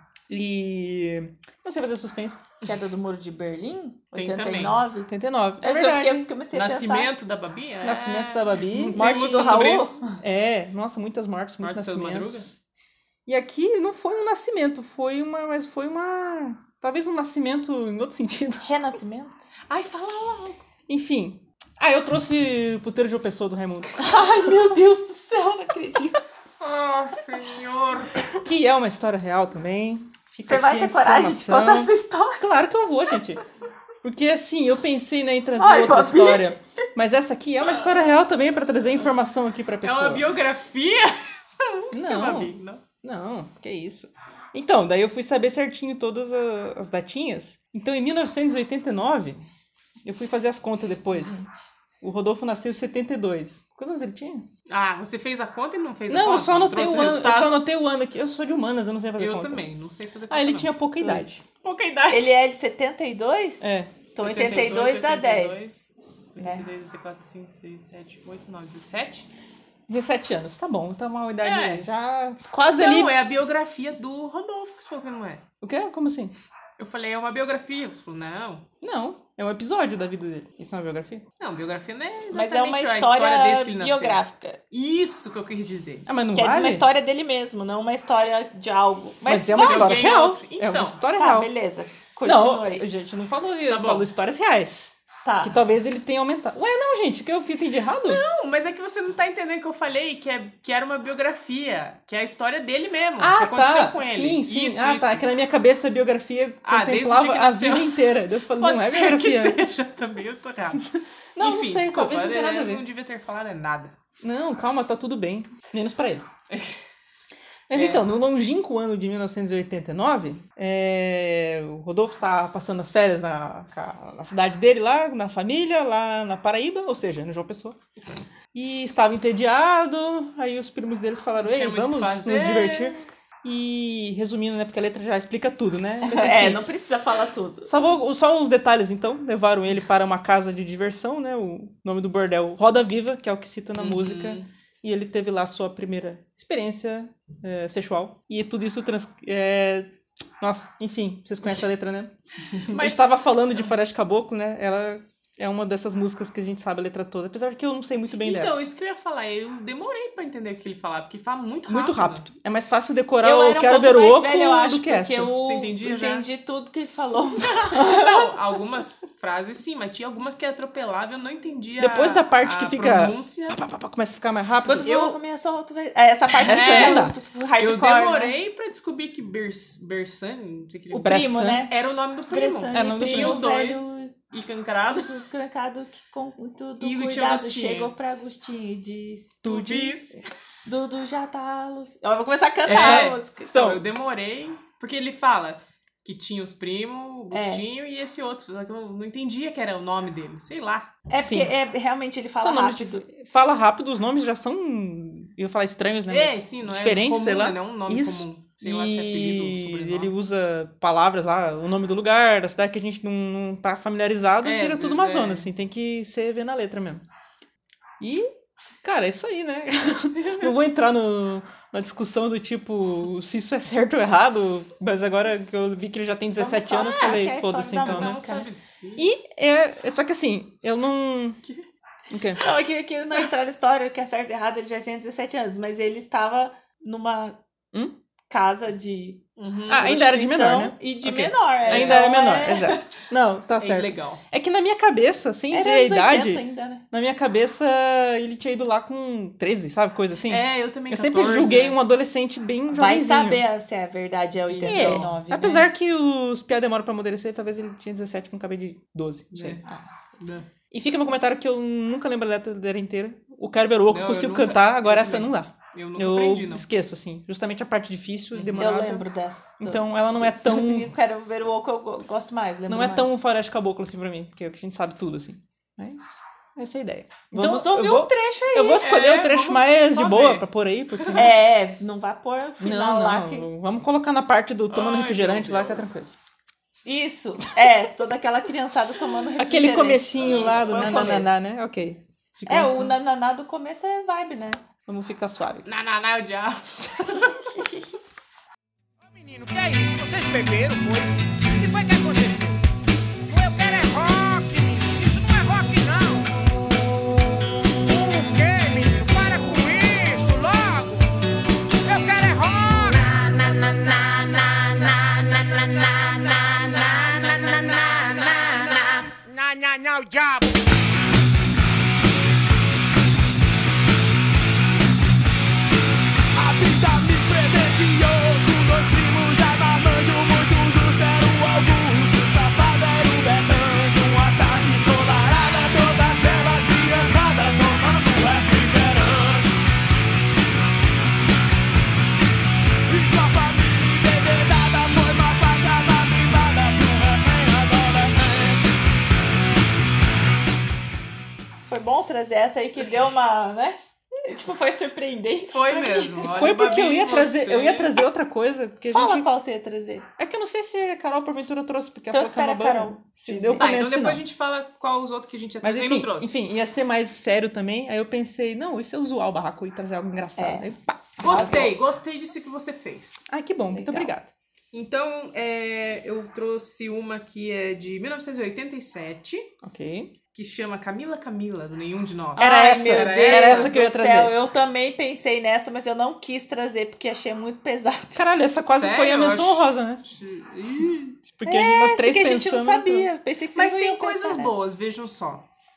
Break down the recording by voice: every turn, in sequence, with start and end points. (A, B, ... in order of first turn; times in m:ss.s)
0:00.3-0:02.4 A
0:02.6-0:07.1 B
0:04.1-0:04.8 C
0:05.1-0:06.3 A
0:06.5-0:10.0 C
0:07.8-0:12.6 A
0:08.9-0:10.0 B
0:11.6-0:12.5 C
0:13.2-0:18.6 A
0:18.6-0:19.5 B
0:19.7-0:20.6 C
0:20.9-0:24.0 A
0:24.0-0:26.2 B
0:26.6-0:28.3 C
0:28.4-0:33.4 A
0:30.4-0:32.4 B
0:34.0-0:40.2 A
0:35.6-0:36.5 B
0:37.8-0:38.0 C
0:39.8-0:42.8 C
0:41.9-0:42.5 A
0:43.0-0:49.4 A
0:50.0-0:51.5 A
0:52.0-0:54.4 A
0:54.7-0:57.6 C
0:56.1-0:59.6 A
0:59.2-1:00.7 C
1:00.3-1:01.4 A
1:01.0-1:01.3 B
1:01.6-1:02.4 C
1:02.1-1:06.6 B
1:03.6-1:03.9 A
1:04.2-1:09.3 C
1:09.9-1:13.1 A
1:11.4-1:11.9 C
1:12.7-1:15.4 C
1:15.6-1:16.3 A
1:16.8-1:18.6 C
1:18.8-1:21.2 A
1:21.4-1:26.1 C
1:22.3-1:24.6 B
1:26.1-1:26.8 A
1:26.3-1:30.0 B
1:29.2-1:31.5 A
1:29.6-1:31.0 C
1:31.1-1:32.9 B
1:32.2-1:38.2 A
1:33.7-1:34.1 C
1:35.2-1:35.6 B
1:38.0-1:45.2 C
1:43.2-1:49.6 A
1:46.6-1:48.0 C
1:48.6-1:53.9 C
1:51.3-1:52.8 A
1:54.2-1:56.2 A
1:56.5-1:56.8 C
1:57.7-2:07.8 A
1:57.7-1:58.1 C
2:08.5-2:16.6 A
2:11.3-2:13.0 C
2:16.0-2:17.7 B
2:17.6-2:29.9 A
2:23.8-2:24.5 C
2:30.4-2:32.1 A
2:32.5-2:33.2 C
2:32.7-2:38.6 A
2:38.2-2:42.2 C
2:41.7-2:45.3 A
2:43.2-2:48.3 B
2:45.4-2:46.3 C
2:47.4-2:53.6 C
2:51.8-2:55.2 A
2:54.6-2:58.4 B
2:56.4-2:57.2 A
2:56.4-3:05.2 C
3:00.9-3:01.6 A
3:01.0-3:01.7 B
3:02.3-3:04.1 B
3:02.7-3:03.4 A
3:05.0-3:09.6 B
3:06.8-3:07.9 C
3:09.4-3:10.0 A
3:09.4-3:10.2 C
3:10.6-3:13.7 B
3:12.7-3:13.8 A
3:12.7-3:20.9 C
3:17.3-3:17.6 B
3:21.1-3:23.0 B
3:21.2-3:21.5 A
3:22.4-3:37.0 A
3:26.1-3:30.1 C
3:34.4-3:35.5 C
3:38.0-3:38.3 A
3:38.8-3:48.2 A
3:40.2-3:40.5 C
3:46.4-3:48.5 B
3:47.8-3:49.1 C
3:49.0-3:51.4 A
3:52.1-3:52.4 A
3:52.4-3:57.4 B
3:58.3-3:59.2 B
3:59.4-4:00.0 C
3:59.7-4:13.4 A
3:59.8-4:02.9 B
4:01.6-4:02.0 C
4:03.6-4:04.2 C
4:05.5-4:06.8 B
4:10.3-4:11.8 C
4:12.7-4:15.7 B
4:14.5-4:15.2 C
4:14.6-4:19.6 A
4:19.3-4:19.6 C
4:19.6-4:19.9 B
4:20.2-4:20.5 C
4:20.7-4:29.1 A
4:23.9-4:26.6 C
4:28.3-4:28.6 C
4:28.6-4:33.2 B
4:29.6-4:30.9 A
4:32.7-4:41.4 A
4:37.3-4:38.8 B
4:38.8-4:41.2 C
4:41.1-4:43.5 B
4:42.6-4:46.1 A
4:44.7-4:46.0 C
4:46.8-4:51.4 B
4:49.4-4:53.0 A
4:50.2-4:51.1 C
4:52.5-4:54.6 B
4:54.9-4:55.7 A
4:55.6-4:57.5 C
4:57.6-4:57.8 B
4:59.0-5:02.6 D
5:03.3-5:06.3 D
5:07.8-5:11.0 D
5:11.8-5:20.6 D
5:26.3-5:39.6 E
5:42.9-5:48.6 E
5:51.6-5:56.3 B
5:55.5-5:57.9 C
5:56.2-5:59.3 A
5:58.9-6:00.1 B
6:00.2-6:04.2 A
6:02.1-6:03.6 B
6:03.6-6:06.3 C
6:05.6-6:11.8 A
6:10.4-6:10.7 B
6:11.2-6:13.2 C
6:11.2-6:11.8 B
6:13.3-6:14.3 A
6:13.7-6:14.1 B
6:14.7-6:19.5 C
6:19.6-6:20.1 A
6:20.3-6:23.7 C
6:22.4-6:24.3 A
6:22.4-6:28.2 B
6:28.1-6:30.0 A
6:28.7-6:31.2 C
6:31.2-6:33.1 A
6:31.4-6:34.6 B
6:33.5-6:35.4 C